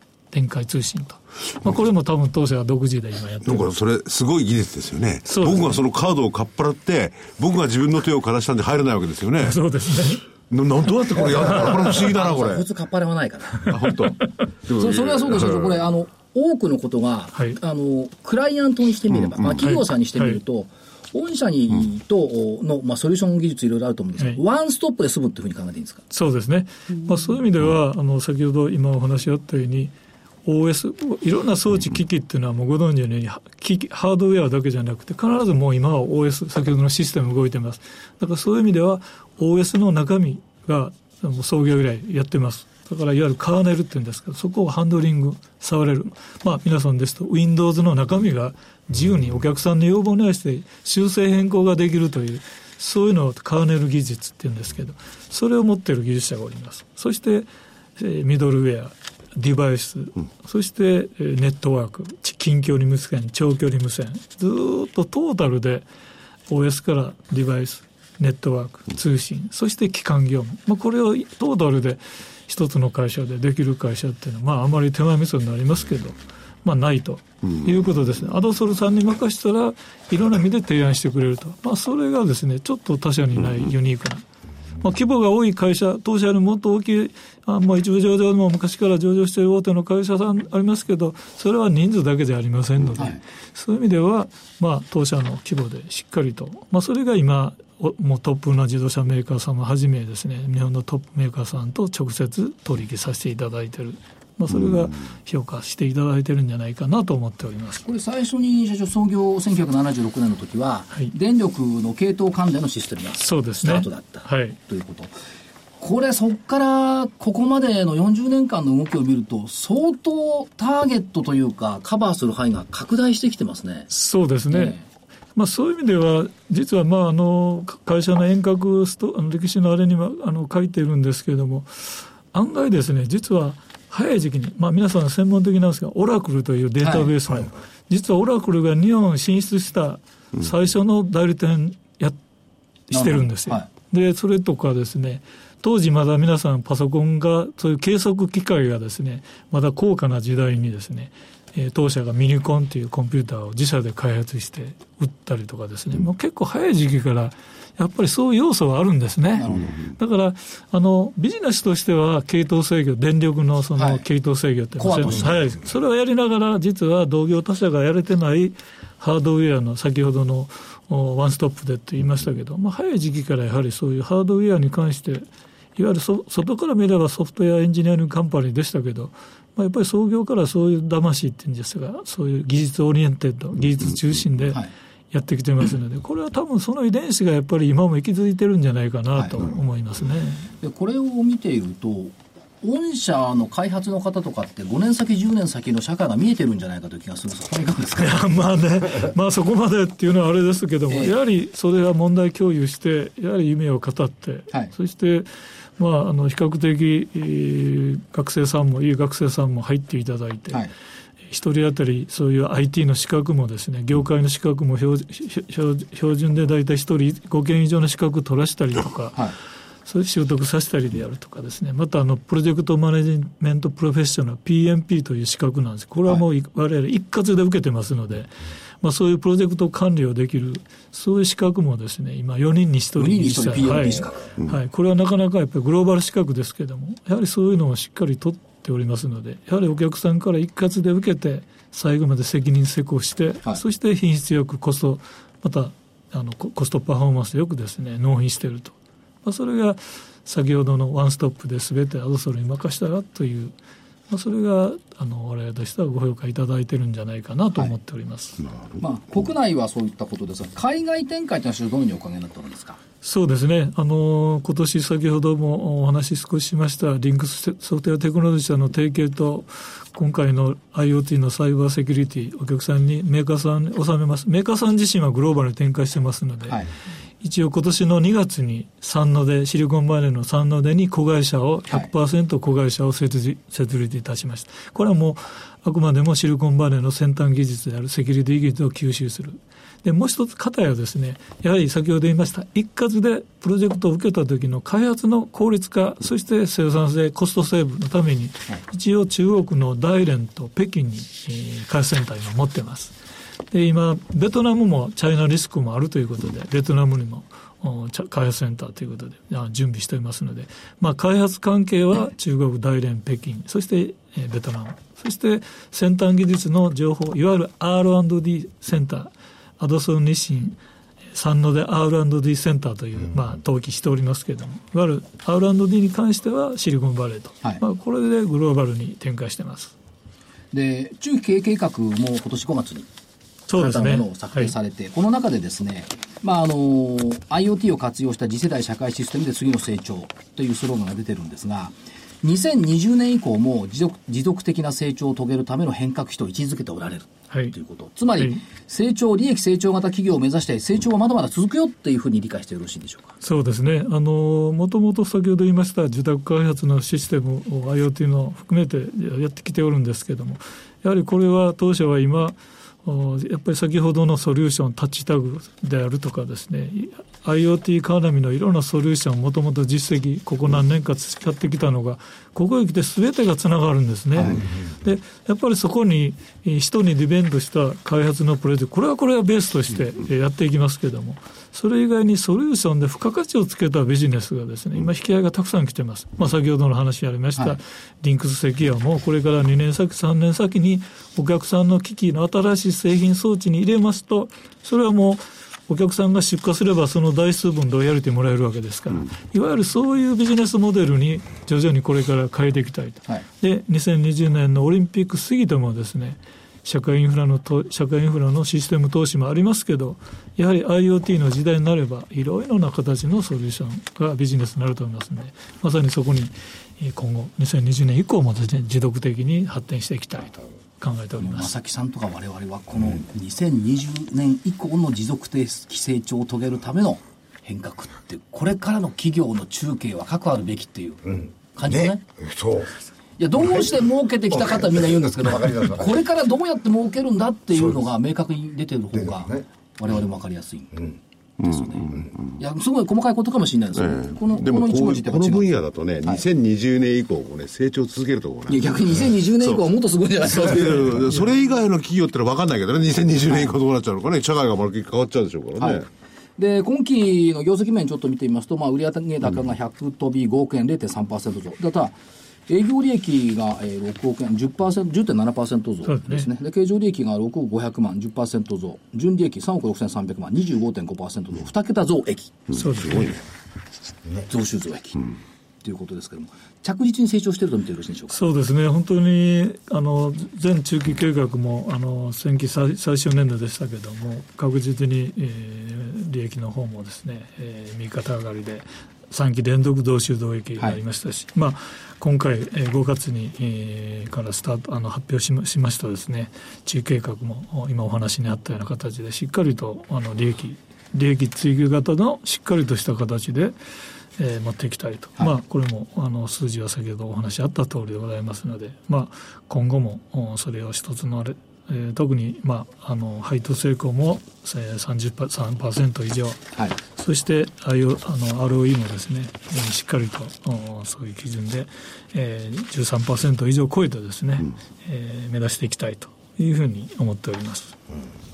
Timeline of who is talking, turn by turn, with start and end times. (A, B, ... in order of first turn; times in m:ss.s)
0:00.3-0:03.8 A
0:03.4-0:09.6 B
0:05.2-0:05.8 A
0:09.4-0:10.2 A
0:10.5-0:12.6 B
0:11.2-0:13.9 C
0:13.6-0:15.8 B
0:13.8-0:14.5 A
0:14.8-0:26.0 C
0:19.1-0:19.6 B
0:19.6-0:20.4 A
0:26.1-0:29.9 A
0:30.4-1:05.9 A
1:06.5-1:24.2 A
1:24.8-1:47.9 A
1:47.8-1:55.1 C
1:53.2-1:54.6 A
1:55.8-2:03.9 C
2:03.9-2:04.8 A
2:04.5-2:04.8 C
2:05.4-2:22.2 A
2:16.8-2:17.1 C
2:22.9-3:10.5 A
2:22.9-2:23.7 C
2:39.4-2:39.8 C
2:39.5-2:39.8 B
2:43.8-2:44.0 C
2:44.8-2:45.5 C
3:09.2-3:09.4 C
3:10.6-3:18.2 C
3:18.0-3:30.7 A
3:20.9-3:21.2 C
3:31.3-3:39.3 A
3:39.8-4:13.5 A
3:53.0-3:54.2 C
4:14.1-4:18.4 A
4:18.4-4:18.8 B
4:18.8-4:22.8 C
4:23.0-4:36.6 A
4:37.2-5:03.0 A
5:03.5-5:20.6 A
5:21.1-5:29.8 A
5:30.5-5:32.9 C
5:33.5-5:34.5 A
5:33.5-5:53.2 C
5:48.2-5:48.4 A
5:53.2-7:01.5 A
6:14.2-6:14.4 C
7:01.2-7:12.0 C
7:11.1-7:12.7 D
7:13.2-7:25.5 C
7:14.4-7:16.0 D
7:21.4-7:22.4 B
7:23.8-7:29.6 B
7:28.5-7:31.3 C
7:30.3-7:35.8 B
7:33.3-7:33.5 C
7:35.6-7:42.0 C
7:42.5-7:52.5 C
7:45.8-7:46.3 A
7:52.5-7:53.2 A
7:52.6-7:53.2 B
7:54.3-7:58.2 C
7:58.1-8:23.5 A
8:24.2-8:47.8 A